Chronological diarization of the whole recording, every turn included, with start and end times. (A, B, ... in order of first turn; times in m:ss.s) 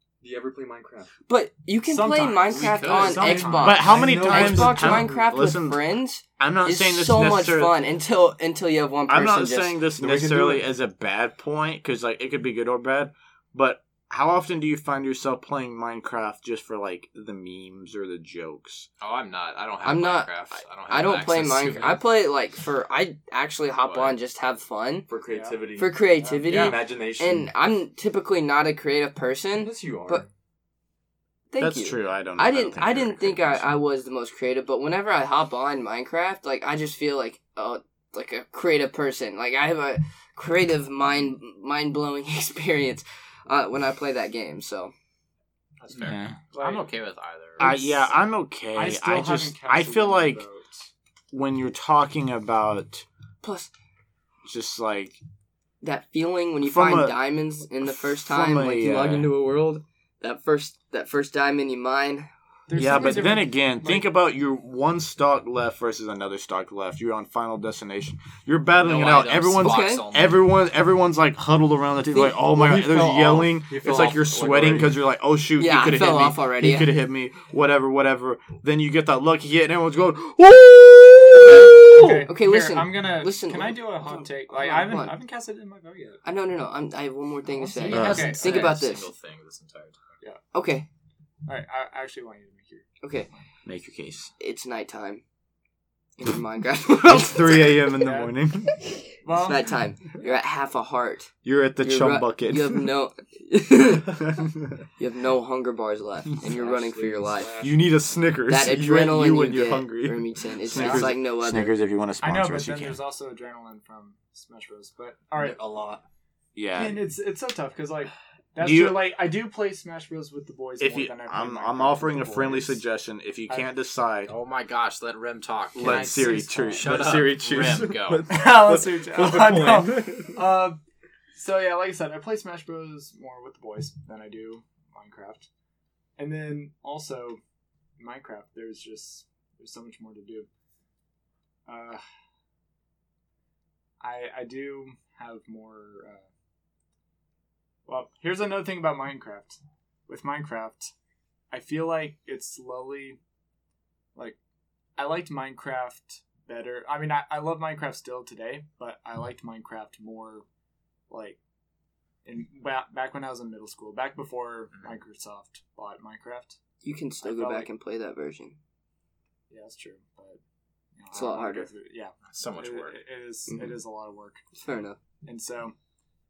0:00.2-0:01.1 A
0:01.3-0:09.8 B
0:01.8-0:04.0 C
0:02.5-0:03.7 D
0:03.5-0:05.8 E
0:03.8-0:05.4 A
0:06.4-0:07.8 E
0:09.1-0:18.9 E
0:10.0-0:10.6 C
0:19.0-0:22.0 D
0:19.8-0:20.3 B
0:20.9-0:25.1 B
0:23.8-0:24.2 D
0:25.1-0:27.5 A
0:25.2-0:26.8 C
0:25.8-0:30.2 B
0:29.6-0:30.3 A
0:31.5-0:44.9 B
0:31.6-0:33.7 E
0:45.8-0:47.6 D
0:46.0-0:46.4 E
0:46.5-0:46.8 C
0:47.6-0:48.2 C
0:47.6-0:50.4 E
0:48.7-0:50.9 C
0:51.3-0:53.0 E
0:53.4-0:53.7 B
0:54.4-0:55.2 E
0:55.8-1:02.3 B
0:56.6-0:57.2 E
0:57.8-0:59.3 E
1:02.7-1:04.1 C
1:02.8-1:22.2 E
1:08.8-1:10.5 D
1:09.6-1:10.0 B
1:12.2-1:15.0 A
1:15.6-1:16.9 B
1:21.9-1:26.2 C
1:22.0-1:25.2 B
1:26.2-1:29.1 B
1:27.5-1:28.9 C
1:27.8-1:30.0 D
1:27.9-1:28.3 E
1:30.5-1:30.9 B
1:31.4-1:33.4 C
1:33.0-1:33.3 B
1:33.6-1:34.3 E
1:34.4-1:35.2 B
1:36.2-1:37.9 B
1:37.0-1:38.8 E
1:37.9-1:38.3 C
1:39.2-1:39.7 C
1:39.4-1:44.2 B
1:41.4-1:42.9 E
1:44.2-1:44.6 E
1:45.0-1:47.6 B
1:46.4-1:47.9 A
1:47.6-1:53.0 E
1:48.5-1:51.7 B
1:50.8-1:51.1 A
1:52.2-1:55.7 C
1:55.4-1:56.0 A
1:56.6-1:57.0 E
1:56.7-2:02.8 C
1:58.6-1:59.2 E
2:00.8-2:04.3 E
2:04.3-2:08.3 D
2:05.8-2:10.4 E
2:05.8-2:07.1 C
2:08.3-2:10.8 C
2:09.2-2:10.0 A
2:11.3-2:15.5 C
2:16.2-2:17.4 C
2:18.0-2:20.5 C
2:21.7-2:22.0 C
2:24.0-2:26.2 C
2:27.9-2:30.9 C
2:31.5-2:33.2 C
2:35.0-2:40.4 C
2:41.1-2:41.4 C
2:42.2-2:46.6 C
2:46.8-2:48.6 B
2:47.2-2:47.7 C
2:49.5-2:50.4 C
2:51.0-2:54.4 C
2:51.1-2:51.7 B
2:52.3-2:53.0 D
2:53.5-2:53.8 B
2:54.6-2:55.0 B
2:55.2-2:55.7 C